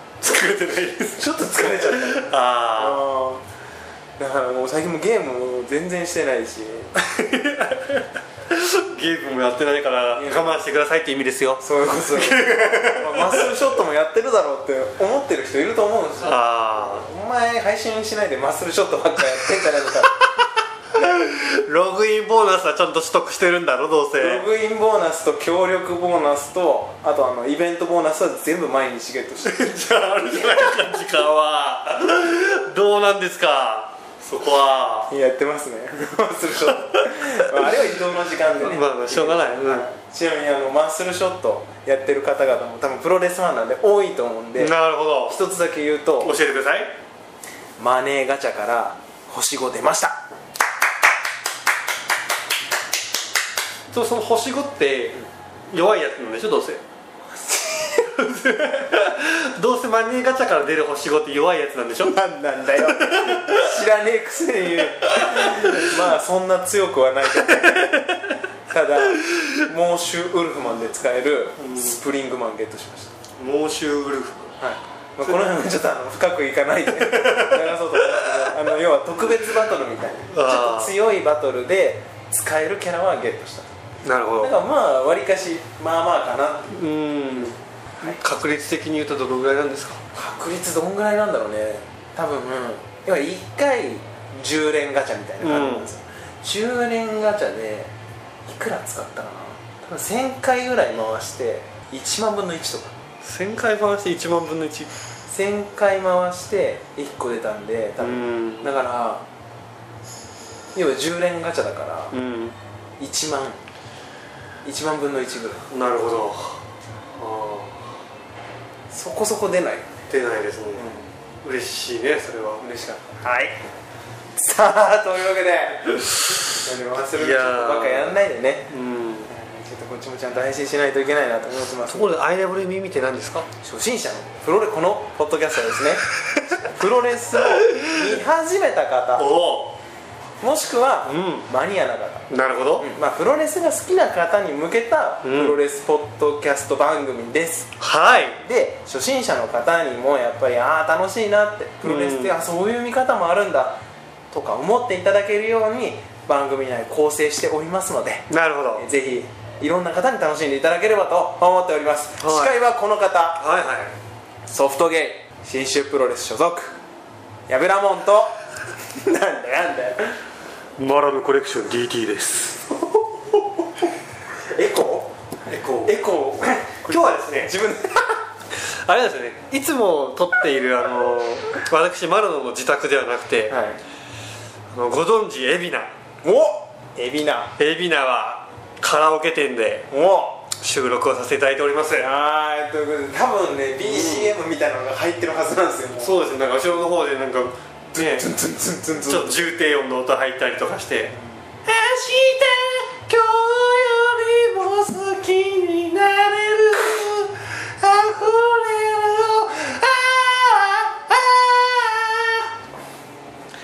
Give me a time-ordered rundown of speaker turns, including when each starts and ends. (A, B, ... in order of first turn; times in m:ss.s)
0:00.2-0:03.1 A
0:01.2-0:03.4 B
0:04.2-0:07.0 B
0:07.0-0:13.8 A
0:10.1-0:10.6 B
0:11.6-0:20.2 B
0:16.2-0:17.1 A
0:20.9-0:24.5 A
0:24.2-0:30.9 B
0:29.4-0:35.1 A
0:35.1-0:44.7 B
0:36.7-0:39.9 A
0:44.6-0:45.4 A
0:45.3-0:46.3 B
0:46.2-0:46.9 A
0:47.8-0:50.2 B
0:53.9-0:55.2 A
0:55.7-0:56.8 A
0:57.3-0:58.1 B
0:58.0-1:02.2 A
1:02.0-1:13.1 B
1:02.7-1:03.8 A
1:05.0-1:06.0 A
1:07.4-1:07.9 A
1:11.6-1:12.0 A
1:13.4-1:14.5 A
1:14.6-1:23.7 B
1:17.0-1:18.6 A
1:20.3-1:20.9 A
1:24.0-1:24.6 A
1:24.4-1:26.8 B
1:26.7-1:30.0 A
1:30.1-1:37.9 B
1:35.4-1:35.9 A
1:38.5-1:43.0 B
1:43.2-1:44.9 A
1:45.3-1:49.3 B
1:48.0-1:48.7 A
1:50.8-1:52.2 B
1:52.1-1:52.6 A
1:53.0-1:53.6 B
1:54.6-1:55.7 B
1:55.7-1:56.6 A
1:57.2-1:57.9 A
1:58.9-1:59.9 B
2:00.1-2:00.9 A
2:00.8-2:01.1 B
2:01.4-2:02.6 A
2:02.6-2:03.6 B
2:04.4-2:08.7 B
2:07.1-2:09.3 A
2:09.3-2:12.1 B
2:11.8-2:13.5 A
2:13.6-2:19.3 B
2:17.5-2:18.0 A
2:19.2-2:19.8 A
2:20.4-2:22.3 B
2:21.0-2:21.5 A
2:22.3-2:22.9 A
2:22.8-2:27.7 B
2:25.2-2:25.6 A
2:27.8-2:28.4 A
2:28.4-2:33.8 B
2:31.8-2:32.4 A
2:34.3-2:43.4 B
2:38.3-2:38.9 A
2:42.2-2:42.6 A
2:43.4-2:43.9 A
2:44.5-2:46.8 B
2:47.5-2:48.4 B
2:48.9-2:50.2 B
2:50.8-2:52.6 A
2:52.7-2:53.9 B
2:54.6-2:55.2 B
2:55.5-2:56.0 A
2:55.8-2:58.2 B
2:56.9-2:57.5 A
2:58.7-3:03.6 A
3:03.5-3:03.8 B
3:04.7-3:05.9 A
3:06.2-3:07.5 B
3:07.6-3:09.9 A
3:09.9-3:10.5 B
3:10.5-3:12.1 A
3:12.0-3:16.1 B
3:13.8-3:14.3 A
3:16.0-3:18.3 A
3:17.9-3:19.4 B
3:19.0-3:21.1 A
3:21.6-3:32.5 A